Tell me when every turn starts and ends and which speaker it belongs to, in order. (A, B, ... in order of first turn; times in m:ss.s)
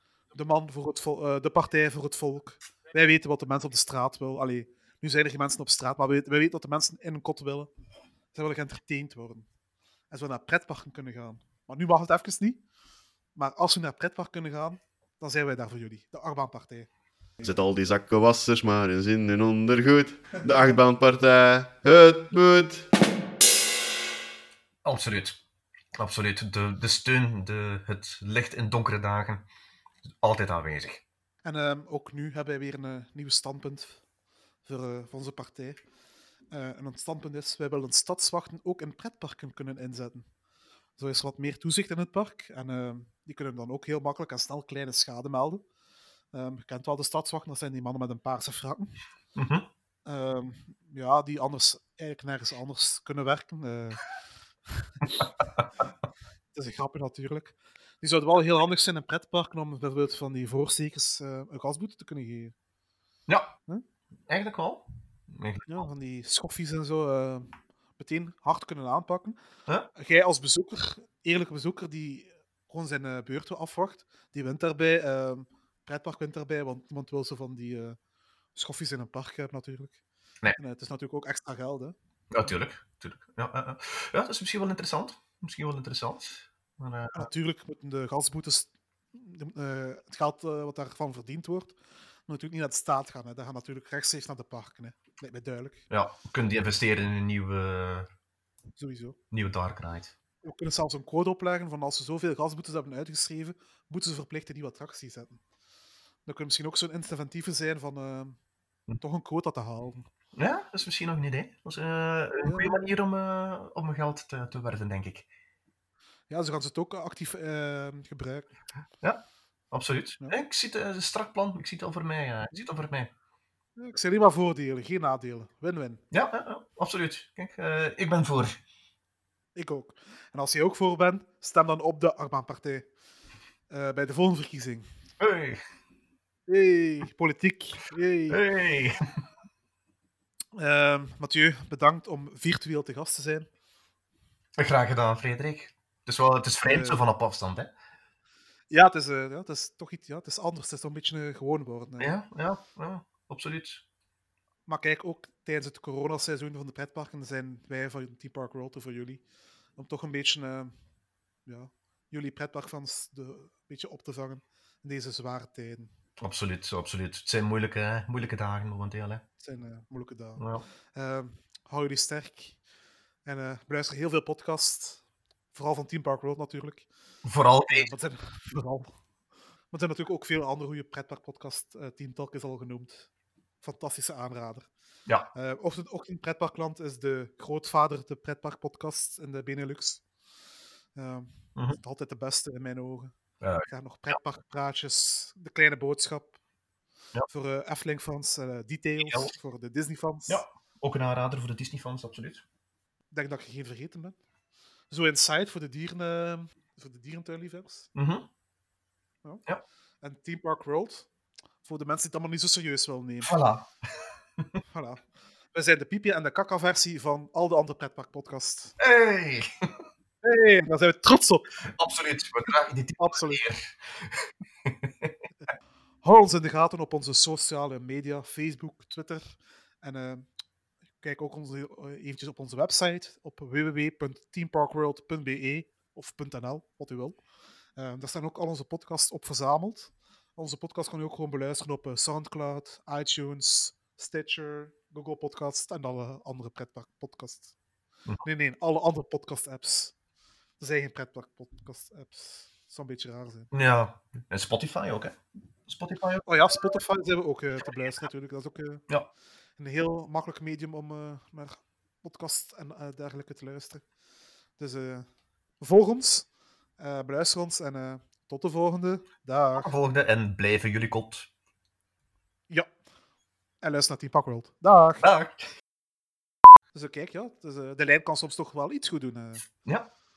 0:00.3-0:07.7 A
0:08.3-0:09.5 A
0:10.1-0:12.6 A
0:13.4-0:16.9 A
0:17.4-0:22.9 B
0:24.8-0:25.4 C
0:26.0-0:29.4 C
0:30.2-0:31.0 C
0:31.4-0:34.0 A
0:34.7-0:35.8 A
0:36.5-0:40.3 A
0:41.0-0:45.6 A
0:46.3-0:49.0 A
0:49.4-0:49.7 C
0:50.1-0:54.1 A
0:54.7-0:55.3 A
0:56.5-1:02.5 A
1:03.3-1:03.5 C
1:04.3-1:05.9 C
1:05.7-1:09.4 A
1:10.0-1:18.0 A
1:18.6-1:20.0 A
1:20.6-1:22.0 A
1:22.3-1:27.3 C
1:27.1-1:35.9 A
1:35.9-1:38.1 C
1:38.8-1:39.2 A
1:39.3-1:40.1 C
1:40.4-1:45.4 A
1:46.3-1:48.4 A
1:49.0-1:50.1 A
1:50.4-1:55.3 C
1:52.4-1:52.9 A
1:56.3-1:58.5 A
1:59.0-2:03.1 C
2:03.8-2:06.0 A
2:06.1-2:08.6 C
2:09.6-2:12.9 A
2:13.7-2:14.8 A
2:15.2-2:15.6 C
2:16.5-2:18.4 A
2:18.3-2:19.0 C
2:20.6-2:23.5 A
2:24.6-2:27.7 C
2:26.6-2:27.0 A
2:28.7-2:32.1 A
2:32.0-2:33.8 C
2:34.7-2:39.2 A
2:39.8-2:40.7 A
2:41.5-2:45.9 A
2:46.2-2:49.2 C
2:49.4-2:52.6 A
2:50.4-2:50.6 C
2:53.2-2:55.0 A
2:55.5-2:56.9 A
2:57.2-2:57.9 C
2:57.7-2:58.9 A
2:59.7-3:03.1 A
3:03.6-3:04.7 A
3:05.3-3:10.0 A
3:11.0-3:13.1 A
3:13.4-3:14.1 C
3:13.7-3:16.4 A
3:17.3-3:20.4 A
3:19.0-3:19.3 C
3:20.3-3:22.4 C
3:23.1-3:24.2 A
3:24.9-3:27.9 A
3:28.0-3:28.3 C
3:30.0-3:31.1 A
3:31.6-3:33.3 A
3:33.2-3:34.5 C
3:34.7-3:35.0 A
3:35.5-3:38.8 A
3:38.8-3:39.7 C
3:40.2-3:41.5 A
3:41.7-3:45.2 C
3:43.0-3:43.4 A
3:46.0-3:49.2 A
3:49.8-3:50.3 A
3:51.0-3:57.2 A
3:57.8-4:07.5 A
4:08.2-4:09.9 A
4:10.6-4:13.5 A
4:13.5-4:16.2 C
4:16.3-4:18.8 A
4:19.6-4:23.8 A
4:24.6-4:25.1 A
4:25.6-4:26.3 A
4:26.8-4:29.7 A
4:29.6-4:31.3 C
4:33.6-4:35.1 A
4:35.0-4:35.5 C
4:36.7-4:39.4 A